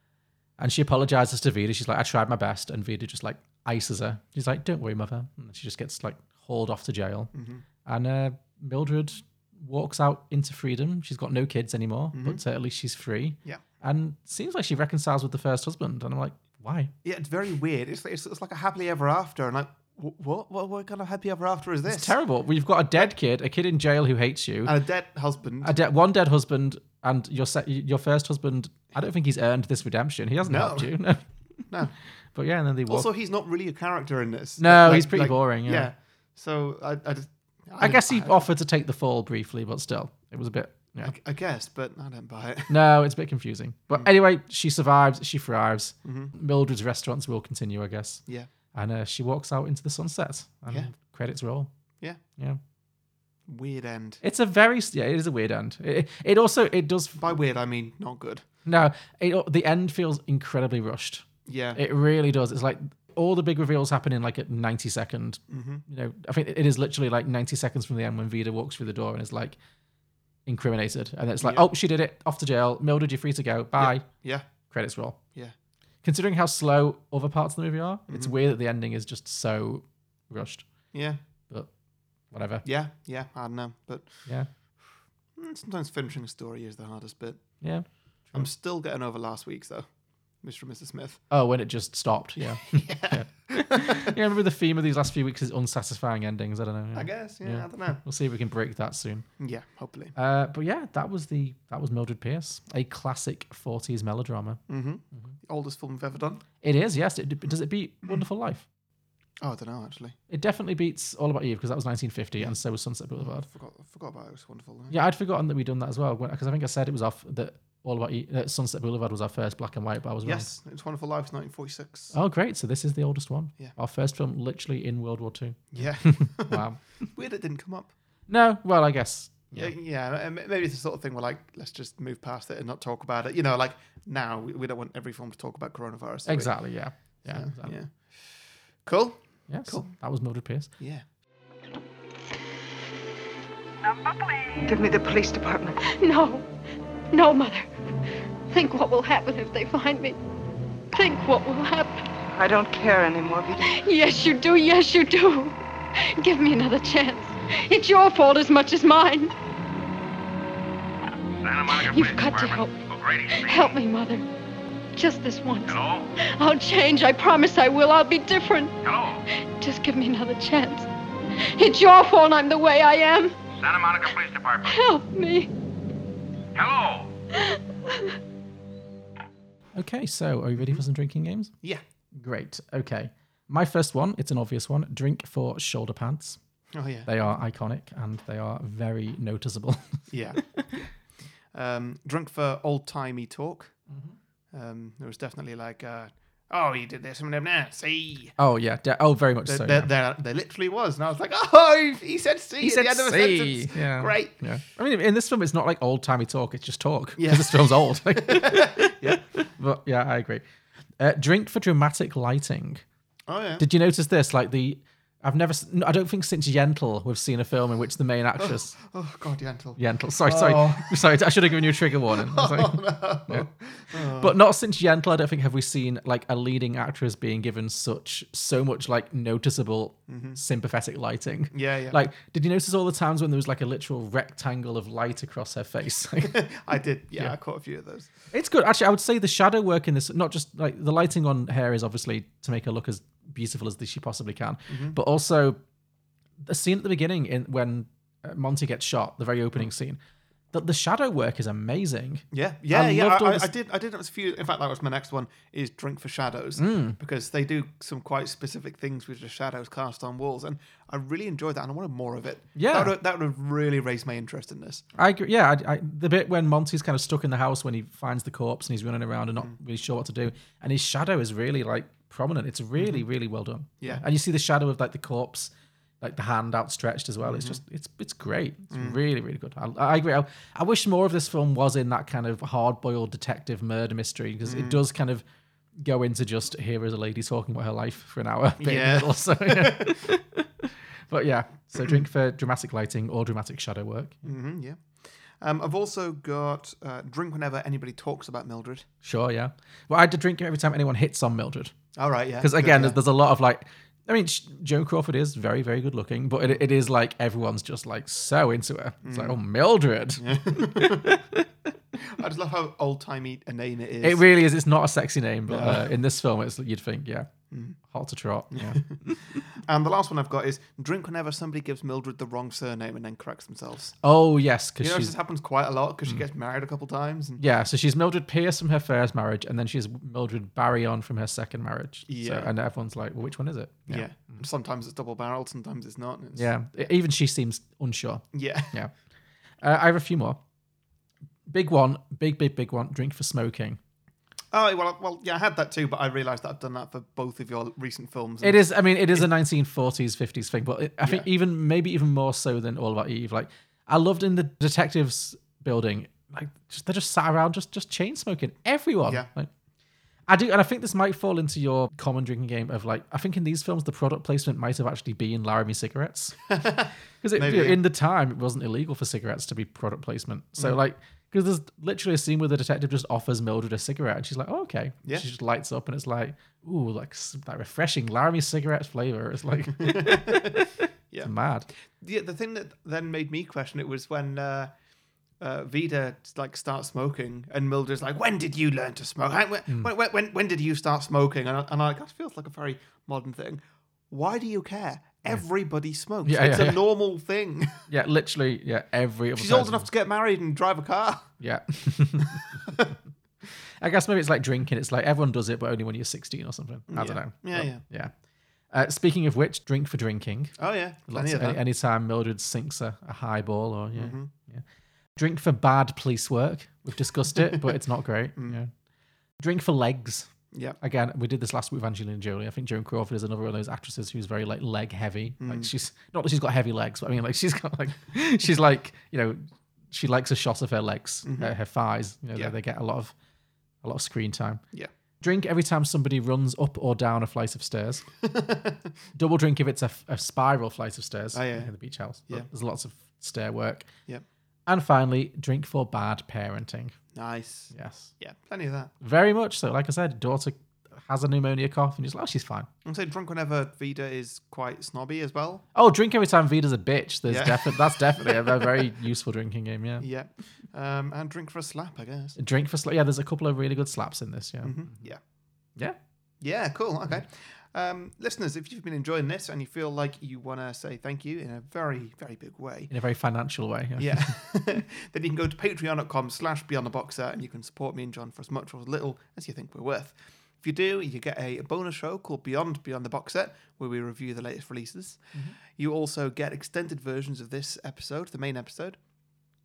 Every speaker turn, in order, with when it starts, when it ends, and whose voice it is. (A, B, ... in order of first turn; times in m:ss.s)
0:00.6-0:07.3 A
0:07.3-0:07.6 B
0:07.8-0:16.9 A
0:12.1-0:12.4 B
0:17.0-0:22.2 B
0:21.9-0:24.8 A
0:24.6-0:25.8 B
0:25.6-0:31.2 A
0:30.4-0:31.1 B
0:31.7-0:31.9 B
0:32.3-0:33.1 A
0:32.9-0:38.5 B
0:34.6-0:35.9 A
0:37.8-0:41.1 A
0:41.0-0:42.7 B
0:42.7-0:51.7 A
0:46.0-0:46.3 B
0:53.5-0:54.2 B
0:54.2-0:57.2 A
0:57.2-0:58.4 B
0:58.7-1:09.6 A
1:01.5-1:01.8 B
1:05.5-1:05.8 B
1:10.5-1:15.2 A
1:11.4-1:11.7 B
1:13.8-1:14.5 B
1:16.0-1:20.9 A
1:18.1-1:18.4 B
1:20.9-1:21.2 B
1:22.3-1:22.7 A
1:22.6-1:24.3 B
1:25.4-1:27.7 B
1:27.6-1:28.5 A
1:28.3-1:31.2 B
1:31.3-1:39.3 A
1:32.4-1:34.1 B
1:36.9-1:38.0 B
1:39.4-1:40.2 B
1:40.2-1:44.6 A
1:44.7-1:46.4 B
1:46.6-1:48.7 A
1:49.4-1:50.2 B
1:50.3-1:53.5 A
1:53.2-1:55.0 B
1:54.9-2:00.5 A
2:00.2-2:02.1 B
2:02.1-2:07.0 A
2:05.7-2:07.9 B
2:08.3-2:09.7 A
2:09.5-2:16.6 B
2:16.3-2:17.8 A
2:17.2-2:19.9 B
2:19.5-2:20.7 A
2:20.8-2:21.0 B
2:24.6-2:25.8 C
2:25.8-2:26.5 D
2:27.1-2:27.7 D
2:28.5-2:30.2 D
2:30.9-2:32.1 D
2:32.3-2:33.7 C
2:33.6-2:39.3 D
2:41.4-2:43.7 E
2:41.7-2:44.3 D
2:45.0-2:48.8 D
2:45.7-2:46.1 E
2:48.8-2:49.2 E
2:49.3-2:50.9 D
2:51.4-2:53.4 D
2:53.6-2:54.7 E
2:54.6-2:55.5 D
2:56.6-2:57.1 E
2:57.4-2:58.2 D
2:59.8-3:01.5 A
3:00.6-3:00.8 B
3:02.1-3:06.4 A
3:06.7-3:07.1 B
3:07.1-3:10.0 A
3:10.1-3:10.4 B
3:11.5-3:13.8 B
3:13.9-3:14.2 A
3:14.5-3:18.3 B
3:18.4-3:19.9 A
3:19.4-3:24.4 B
3:22.6-3:30.4 A
3:27.2-3:29.2 B
3:31.0-3:32.8 A
3:33.3-3:33.7 B
3:33.6-3:38.8 A
3:38.4-3:44.4 B
3:39.8-3:56.5 A
3:50.1-3:50.4 B
3:51.5-3:52.0 B
3:56.2-3:58.1 B
3:58.3-4:05.6 A
4:04.7-4:05.0 B
4:06.4-4:10.0 A
4:10.5-4:13.5 A
4:12.3-4:24.9 B
4:16.6-4:17.0 A
4:22.6-4:23.0 A
4:25.0-4:45.2 A
4:32.8-4:33.0 B
4:37.2-4:37.6 B
4:38.7-4:39.0 B
4:44.4-4:44.8 B
4:45.8-4:54.3 A
4:48.6-4:50.1 B
4:51.8-4:52.0 B
4:54.2-4:58.9 B
4:59.0-5:01.8 A
5:02.0-5:03.0 B
5:02.4-5:11.5 A
5:09.0-5:09.4 B
5:10.2-5:11.2 B
5:12.0-5:14.2 B
5:14.0-5:17.3 A
5:15.5-5:15.9 B
5:17.5-5:17.8 B
5:17.8-5:19.4 A
5:18.5-5:24.0 B
5:24.0-5:25.2 A
5:24.8-5:27.4 B
5:27.4-5:34.4 A
5:32.1-5:32.5 B
5:33.9-5:36.5 B
5:36.4-5:38.9 A
5:38.3-5:38.8 B
5:39.6-5:40.4 A
5:41.5-5:43.8 A
5:44.5-5:49.3 B
5:48.4-5:59.5 A
5:51.0-5:51.3 B
6:00.3-6:06.6 A
6:06.5-6:07.8 B
6:07.2-6:21.7 A
6:19.8-6:21.3 B
6:21.9-6:24.7 B
6:25.4-6:37.9 B
6:36.2-6:36.9 A
6:37.9-6:39.9 A
6:39.4-6:41.3 B
6:41.4-6:42.6 A
6:42.2-6:42.9 B
6:43.8-6:48.1 A
6:46.9-6:47.8 B
6:48.7-6:50.6 A
6:50.6-6:51.6 B
6:51.1-6:54.6 A
6:54.0-6:54.3 B
6:55.2-6:58.7 A
6:59.4-7:13.1 A
7:00.5-7:00.8 B
7:05.4-7:05.7 B
7:11.2-7:11.5 B
7:13.8-7:14.6 A
7:15.2-7:18.0 A
7:18.2-7:18.9 B
7:19.2-7:23.9 A
7:21.3-7:21.7 B
7:24.7-7:27.0 A
7:27.1-7:28.9 B
7:27.7-7:28.1 A
7:29.0-7:32.7 A
7:32.8-7:35.6 B
7:35.8-7:40.1 A
7:37.2-7:38.9 B
7:40.0-7:42.4 B
7:42.4-7:45.0 A
7:44.6-7:45.2 B
7:46.4-7:52.9 B
7:52.9-7:54.3 A
7:54.0-8:09.0 B